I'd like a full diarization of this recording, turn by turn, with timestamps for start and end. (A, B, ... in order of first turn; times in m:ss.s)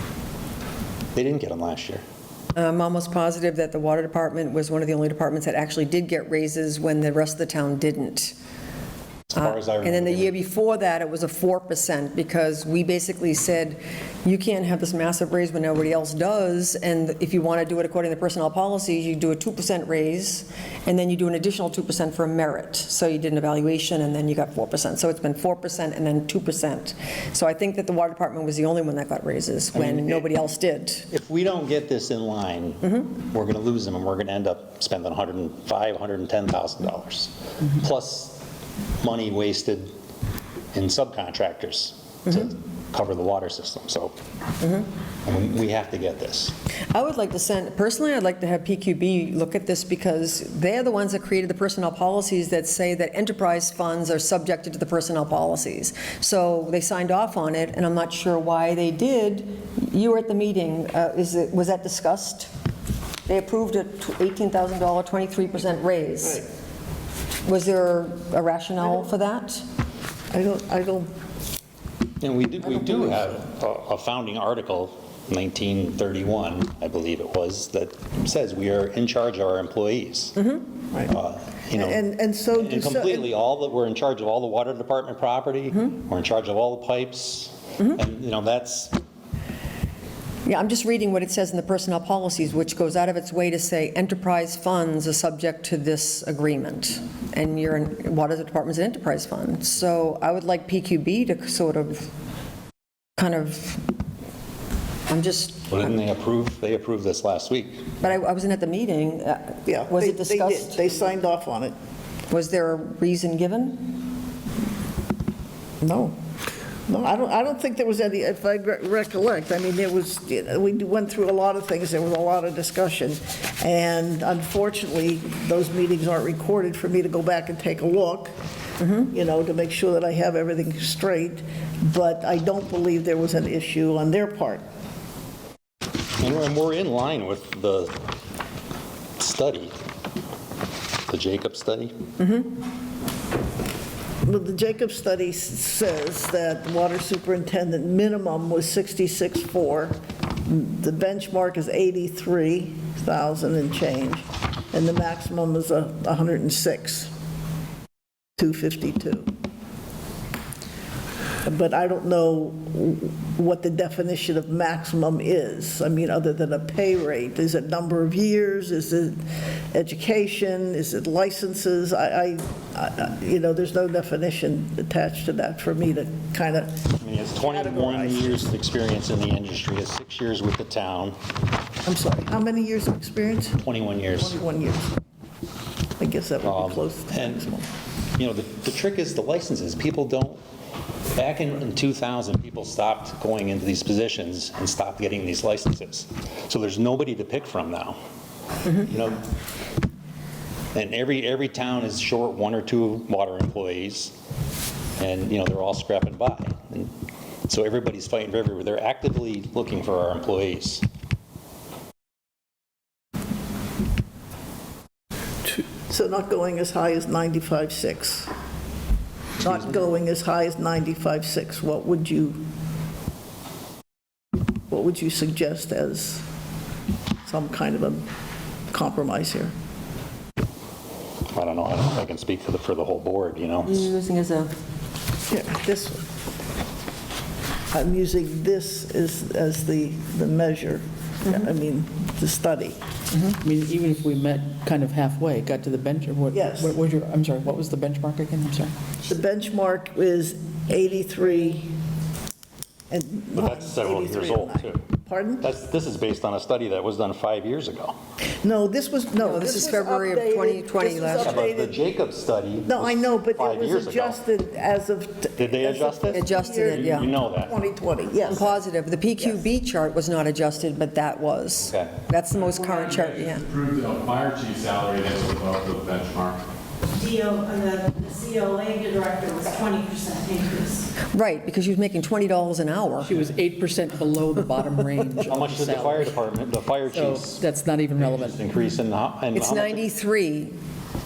0:01.1-0:02.0 A
0:02.5-0:08.4 B
0:09.3-0:10.4 A
0:09.4-0:31.1 B
0:29.7-0:30.3 A
0:31.1-0:38.4 A
0:39.0-0:39.9 A
0:40.7-0:44.2 A
0:45.3-0:46.5 A
0:46.9-1:02.5 B
1:03.3-1:06.4 B
1:07.4-1:09.6 B
1:10.3-1:11.1 C
1:12.2-1:22.0 A
1:21.7-1:23.3 C
1:22.6-1:29.0 A
1:30.4-1:42.1 B
1:43.2-1:43.9 B
1:45.1-1:45.8 B
1:45.7-1:47.9 A
1:48.0-1:50.8 B
1:49.7-1:51.7 C
1:52.3-1:54.0 B
1:55.8-1:56.1 C
1:56.9-2:08.3 C
2:08.8-2:09.0 B
2:09.1-2:14.6 C
2:16.2-2:18.0 A
2:19.2-2:19.7 A
2:21.1-2:21.9 A
2:24.2-2:37.1 C
2:38.4-2:39.3 C
2:41.4-2:49.2 C
2:49.7-2:58.4 C
2:57.0-3:01.2 A
3:01.8-3:03.6 C
3:03.6-3:04.4 A
3:04.1-3:05.0 C
3:06.0-3:07.7 C
3:06.4-3:07.5 A
3:08.2-3:10.4 A
3:11.2-3:18.0 A
3:18.7-3:19.2 A
3:20.7-3:24.1 A
3:25.0-3:26.9 A
3:27.5-3:30.8 A
3:35.4-3:38.3 C
3:39.4-3:42.4 C
3:44.7-3:46.2 C
3:47.2-3:48.0 C
3:48.7-3:49.5 C
3:51.3-3:53.9 A
3:53.6-3:54.5 B
3:55.3-3:56.0 C
3:57.7-4:02.8 C
4:03.3-4:08.7 D
4:06.3-4:06.7 C
4:09.1-4:11.7 C
4:12.9-4:15.4 C
4:13.3-4:14.9 A
4:15.4-4:18.0 A
4:18.4-4:21.8 C
4:19.2-4:21.4 B
4:21.2-4:24.2 A
4:22.6-4:28.5 C
4:25.4-4:27.5 A
4:26.1-4:27.1 B
4:28.2-4:33.4 B
4:31.7-4:31.9 A
4:32.5-4:36.4 E
4:36.9-4:40.9 F
4:41.1-4:43.2 B
4:43.0-4:46.1 D
4:45.2-4:47.4 A
4:46.9-4:48.4 D
4:48.0-4:49.8 A
4:49.3-4:50.5 B